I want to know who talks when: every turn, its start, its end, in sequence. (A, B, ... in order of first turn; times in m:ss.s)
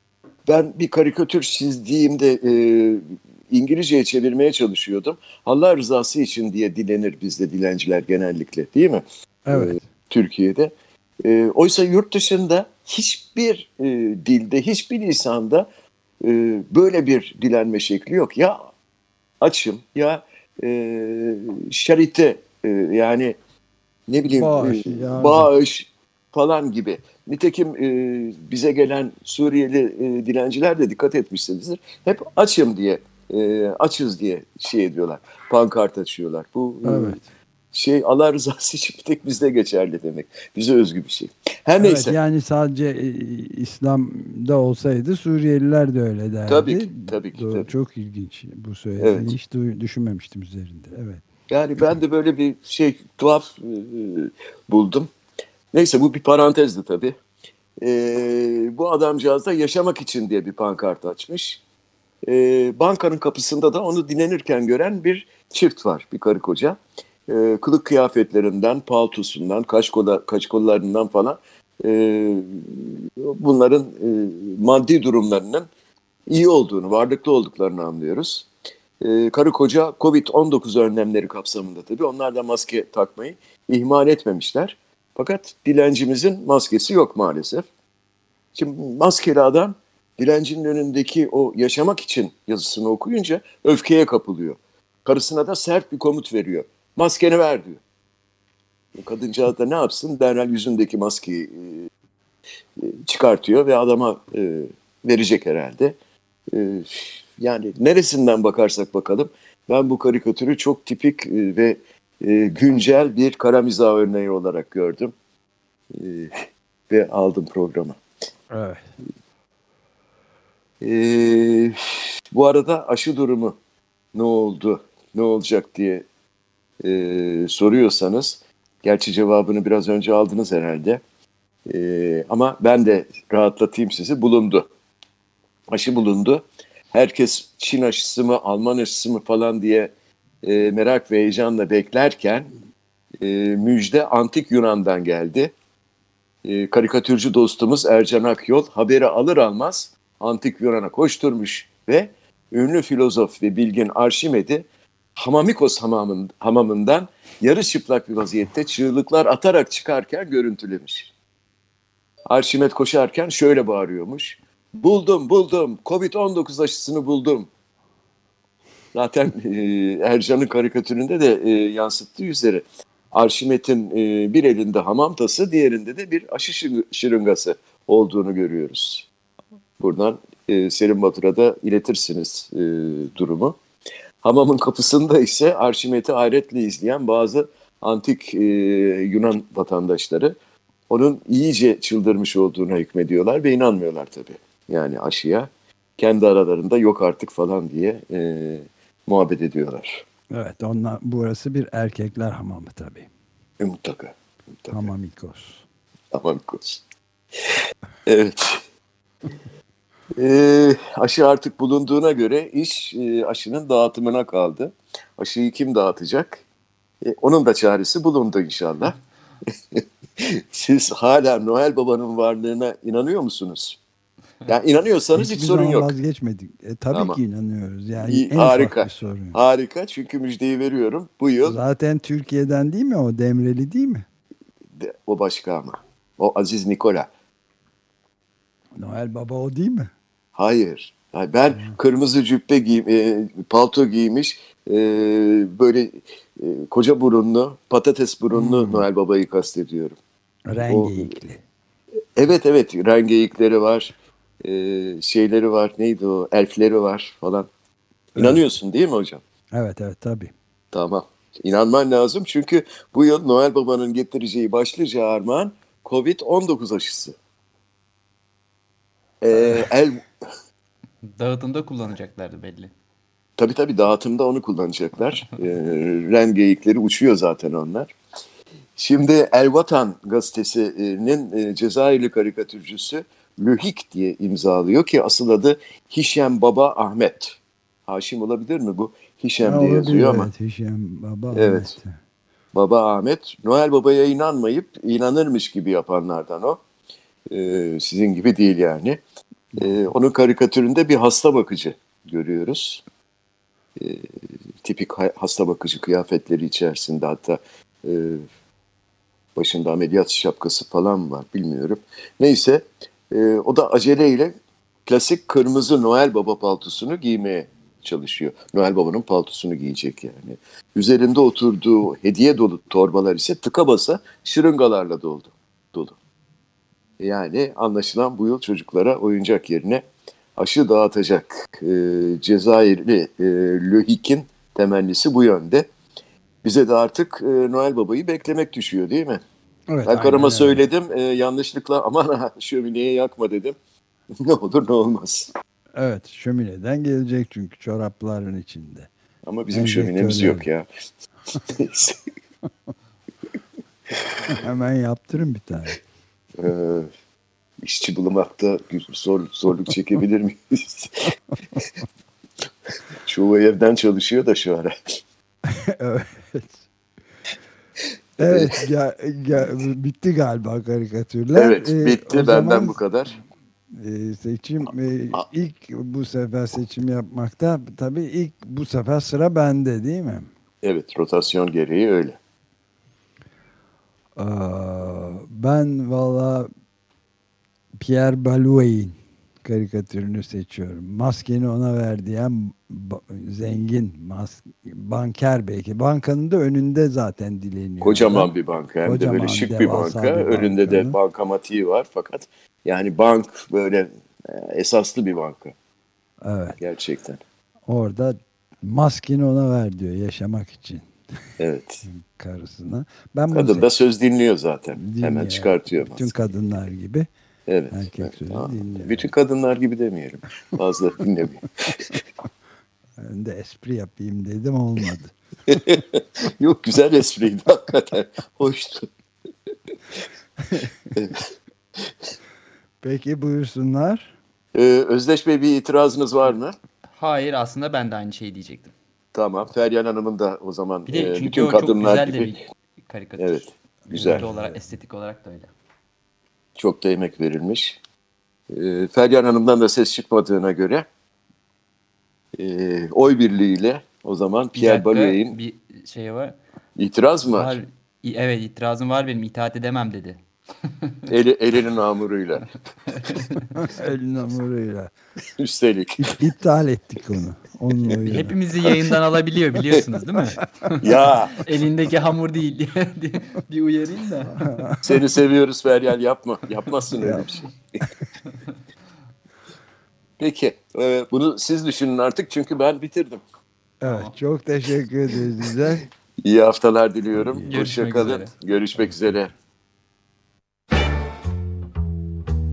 0:00.5-0:15.6 A
0:09.4-0:09.9 B
0:16.2-0:18.6 A
0:19.4-0:23.3 A
0:24.1-0:37.2 A
0:24.3-0:25.5 B
0:36.8-0:37.2 B
0:37.7-0:42.2 A
0:41.8-0:51.2 B
0:46.5-0:47.7 A
0:49.0-0:49.3 A
0:51.5-0:55.1 A
0:55.7-0:57.2 A
0:57.8-1:01.6 A
1:02.2-1:15.7 A
1:16.3-1:18.5 A
1:19.0-1:27.6 A
1:28.5-1:37.8 A
1:39.0-1:41.9 A
1:42.8-1:46.0 A
1:46.5-1:55.1 A
1:55.9-1:58.0 A
1:58.5-1:58.8 B
2:00.8-2:03.6 A
2:04.1-2:06.0 A
2:06.8-2:11.0 A
2:11.7-2:14.7 A
2:15.7-2:19.9 A
2:20.4-2:22.5 A
2:23.2-2:25.5 A
2:26.4-2:41.1 A
2:42.3-2:47.5 A
2:48.9-2:59.1 A
2:59.8-3:03.6 A
3:04.2-3:10.4 A
3:10.9-3:20.0 A
3:20.3-3:23.1 B
3:23.6-3:24.9 A
3:24.7-3:25.6 B
3:26.1-3:26.8 A
3:27.5-3:28.6 A
3:30.2-3:36.4 A
3:37.0-3:39.0 A
3:39.7-3:43.8 A
3:44.4-3:45.9 A
3:45.1-3:49.4 B
3:46.9-3:47.2 A
3:48.0-3:51.6 A
3:51.4-3:54.0 B
3:54.8-3:57.1 A
3:58.8-3:59.9 B
4:00.3-4:10.0 A
4:01.5-4:01.8 B
4:08.3-4:08.8 B
4:10.5-4:11.4 B
4:10.7-4:11.1 A
4:12.2-4:17.5 A
4:18.1-4:18.4 B
4:18.2-4:19.2 A
4:19.5-4:20.3 B
4:20.7-4:27.1 A
4:29.2-4:30.0 A
4:31.0-4:32.7 C
4:33.4-4:37.9 A
4:38.8-4:50.3 A
4:49.4-4:52.0 B
4:51.3-4:51.7 A
4:52.5-4:56.6 A
4:57.3-4:59.0 A
4:59.6-5:02.8 A
5:03.8-5:04.1 A
5:04.6-5:08.2 A
5:09.4-5:14.3 A
5:14.8-5:26.0 A
5:27.0-5:29.8 A
5:30.4-5:35.7 A
5:36.4-5:39.2 A
5:39.7-5:40.6 B
5:39.8-5:43.5 A
5:44.2-5:45.3 A
5:45.8-5:48.9 B
5:49.2-5:50.7 A
5:49.5-5:50.4 B
5:51.5-5:52.0 A
5:54.3-5:55.8 B
5:56.4-5:56.9 A
5:57.6-6:01.1 A
6:03.0-6:04.7 A
6:05.7-6:06.6 B
6:08.2-6:12.8 B
6:08.2-6:08.5 A
6:11.3-6:13.2 A
6:13.8-6:20.3 B
6:20.6-6:22.2 A
6:24.2-6:26.5 B
6:27.8-6:38.3 B
6:37.8-6:45.5 A
6:38.8-6:41.0 B
6:46.2-6:46.6 B
6:46.6-6:47.2 A
6:47.7-6:50.9 B
6:51.4-6:51.8 A
6:51.8-6:53.7 B
6:53.3-6:56.2 A
6:54.7-6:57.1 B
6:57.5-7:01.9 A
6:57.7-6:59.1 B
7:03.0-7:05.1 B
7:05.5-7:08.9 A
7:10.9-7:11.2 A
7:12.8-7:14.1 B
7:14.5-7:16.6 A
7:16.9-7:18.7 C
7:19.1-7:22.3 A
7:20.9-7:25.5 C
7:23.2-7:24.2 A
7:23.9-7:24.6 B
7:26.6-7:27.8 A
7:28.5-7:30.8 A
7:32.4-7:35.4 A
7:34.5-7:36.4 C
7:36.8-7:37.6 A
7:37.3-7:40.2 C
7:41.1-7:42.5 A
7:42.9-7:43.4 C
7:43.5-7:44.9 B
7:45.4-7:46.1 A
7:46.0-7:48.4 B
7:47.9-7:54.6 C
7:50.8-7:51.4 A
7:54.5-7:54.8 B
7:54.8-7:57.5 A
7:57.0-7:57.2 B
8:00.2-8:03.2 A
8:03.8-8:05.8 B
8:03.8-8:04.1 C
8:06.2-8:09.3 A
8:07.1-8:07.6 B
8:07.5-8:08.3 C
8:08.8-8:09.2 B